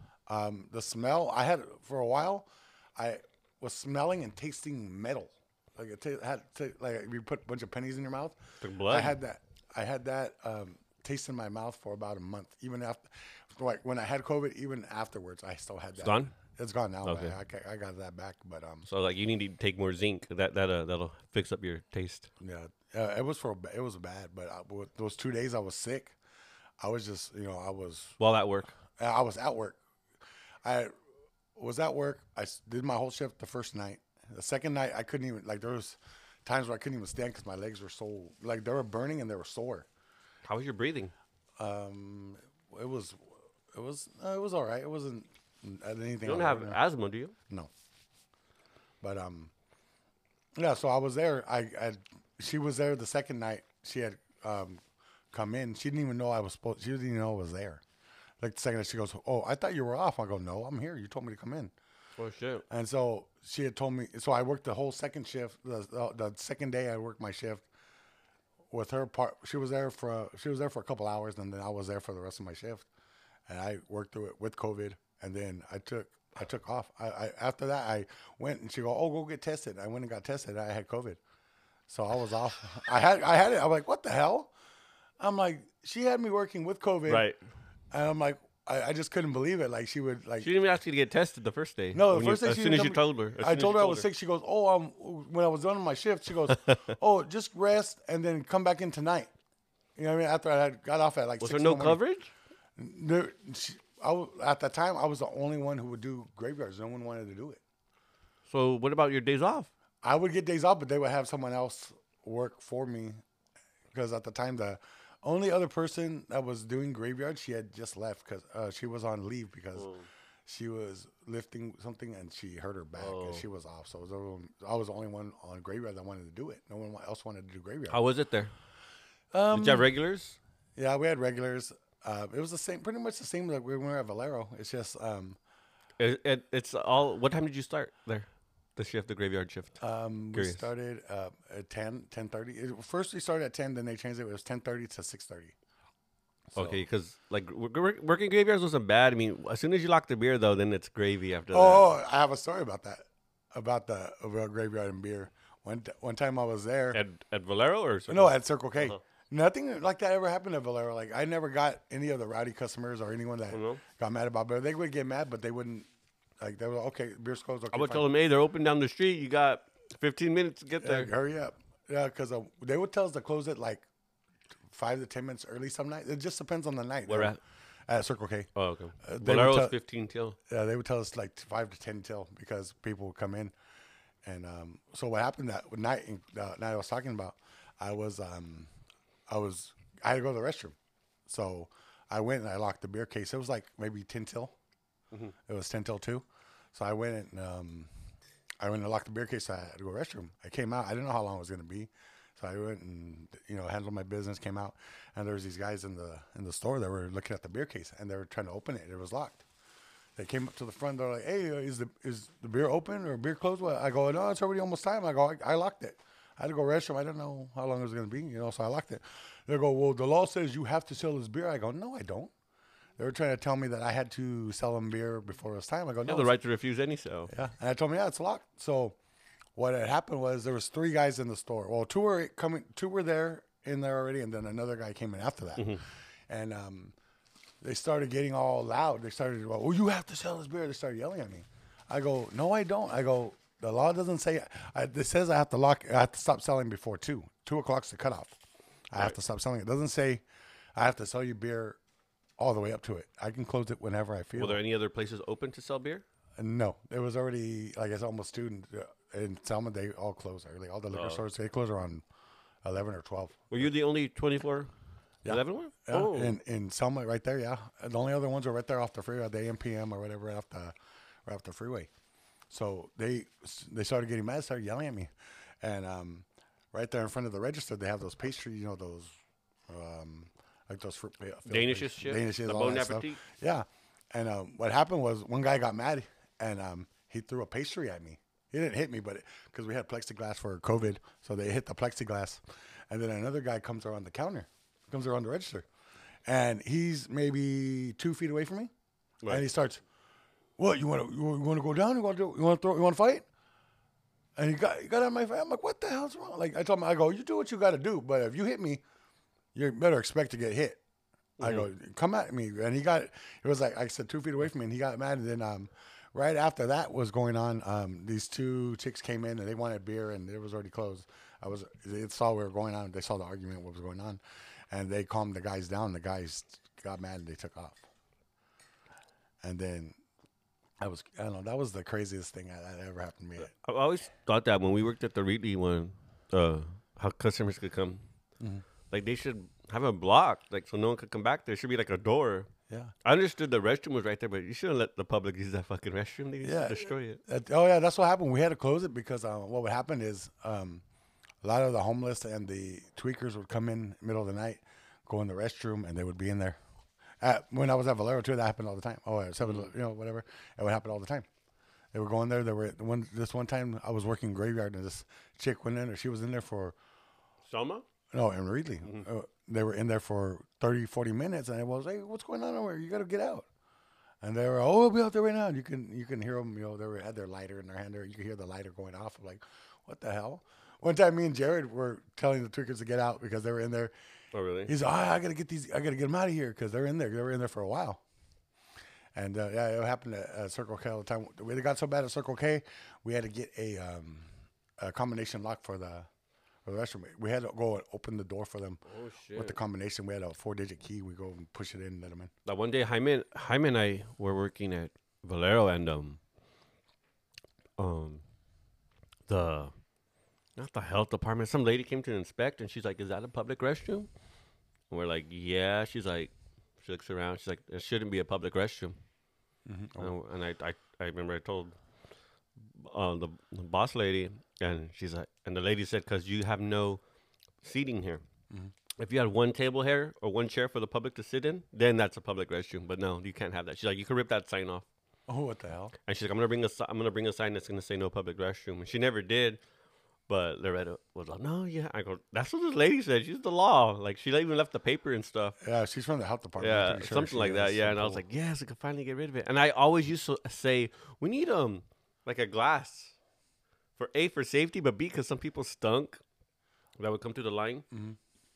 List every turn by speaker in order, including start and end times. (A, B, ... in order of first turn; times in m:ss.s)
0:00.3-0:08.4 A
0:08.6-0:09.2 B
0:08.9-0:18.9 A
0:16.0-0:16.3 B
0:17.0-0:17.4 B
0:18.8-0:22.3 B
0:22.4-0:26.2 A
0:26.8-0:28.2 A
0:28.2-0:28.7 B
0:29.0-0:29.8 A
0:30.6-0:30.9 A
0:31.6-0:39.9 A
0:40.4-0:41.1 B
0:41.6-0:46.8 A
0:46.2-0:47.3 B
0:49.0-0:49.5 A
0:50.6-0:54.8 A
0:55.3-0:57.8 A
0:58.4-1:01.7 A
1:02.2-1:02.6 B
1:02.7-1:07.6 A
1:08.7-1:12.8 A
1:13.5-1:21.2 A
1:21.9-1:24.5 A
1:25.2-1:27.3 A
1:27.1-1:27.4 B
1:27.9-1:30.5 A
1:30.4-1:34.1 B
1:31.9-1:39.3 A
1:36.5-1:36.9 B
1:40.0-1:42.0 A
1:41.4-1:42.3 B
1:42.8-1:47.6 A
1:48.5-1:49.7 B
1:50.0-1:53.2 A
1:53.9-1:59.9 A
1:59.7-2:00.1 B
2:00.4-2:08.0 A
2:03.0-2:03.4 B
2:07.9-2:08.5 B
2:09.3-2:09.9 A
2:09.5-2:10.4 B
2:10.8-2:15.4 A
2:16.0-2:19.8 B
2:19.8-2:25.5 A
2:20.3-2:20.7 B
2:26.5-2:31.8 B
2:26.6-2:26.8 A
2:31.5-2:37.0 A
2:36.9-2:39.0 B
2:38.1-2:45.9 A
2:43.5-2:43.8 B
2:46.4-2:48.1 A
2:47.7-2:51.1 B
2:50.8-2:53.8 A
2:54.7-2:57.3 A
2:57.0-2:57.4 B
2:57.9-2:58.5 A
2:58.6-3:00.4 B
2:59.0-2:59.7 A
3:00.5-3:03.5 A
3:04.2-3:08.7 A
3:09.3-3:14.5 A
3:15.4-3:17.9 A
3:18.6-3:29.4 A
3:30.2-3:42.3 A
3:43.0-3:46.3 A
3:46.1-3:47.3 B
3:47.3-3:49.0 A
3:49.6-3:56.9 A
3:55.6-3:55.8 B
3:57.6-4:08.3 A
4:08.9-4:10.2 A
4:10.8-4:11.8 A
4:12.4-4:14.6 A
4:14.4-4:16.0 B
4:16.4-4:22.0 A
4:20.9-4:21.2 B
4:22.6-4:23.7 A
4:23.5-4:24.7 B
4:25.2-4:30.7 A
4:25.3-4:26.4 B
4:31.2-4:31.9 A
4:32.5-4:35.1 A
4:35.6-4:39.1 A
4:39.7-4:55.6 A
4:41.5-4:43.2 B
4:56.2-4:58.7 A
4:59.3-4:59.8 A
5:00.6-5:03.2 A
5:04.4-5:08.8 A
5:09.5-5:10.8 A
5:11.4-5:11.7 B
5:11.4-5:27.8 A
5:29.4-5:30.0 A
5:30.8-5:33.5 A
5:33.4-5:38.0 B
5:38.4-5:38.6 A
5:38.9-5:42.5 B
5:42.7-5:42.9 A
5:43.0-5:47.2 B
5:46.4-5:50.8 A
5:51.4-5:56.6 A
5:57.2-6:01.3 A
5:59.4-5:59.7 B
6:01.9-6:06.8 A
6:07.5-6:07.8 B
6:08.1-6:13.4 A
6:14.2-6:23.9 A
6:24.3-6:24.7 B
6:24.6-6:28.0 A
6:29.1-6:36.1 A
6:36.6-6:38.8 A
6:38.8-6:39.6 B
6:39.3-6:42.3 A
6:42.4-6:46.2 B
6:47.8-6:48.2 B
6:49.3-6:49.7 B
6:50.6-6:54.1 B
6:54.9-6:59.0 B
6:59.6-7:00.1 A
7:00.0-7:01.8 B
7:02.6-7:07.0 B
7:07.6-7:08.2 B
7:09.0-7:14.9 B
7:15.3-7:15.9 A
7:16.1-7:19.6 B
7:20.3-7:25.6 B
7:25.6-7:28.2 A
7:26.6-7:33.2 B
7:34.0-7:36.2 B
7:37.0-7:37.8 B
7:37.9-7:38.2 A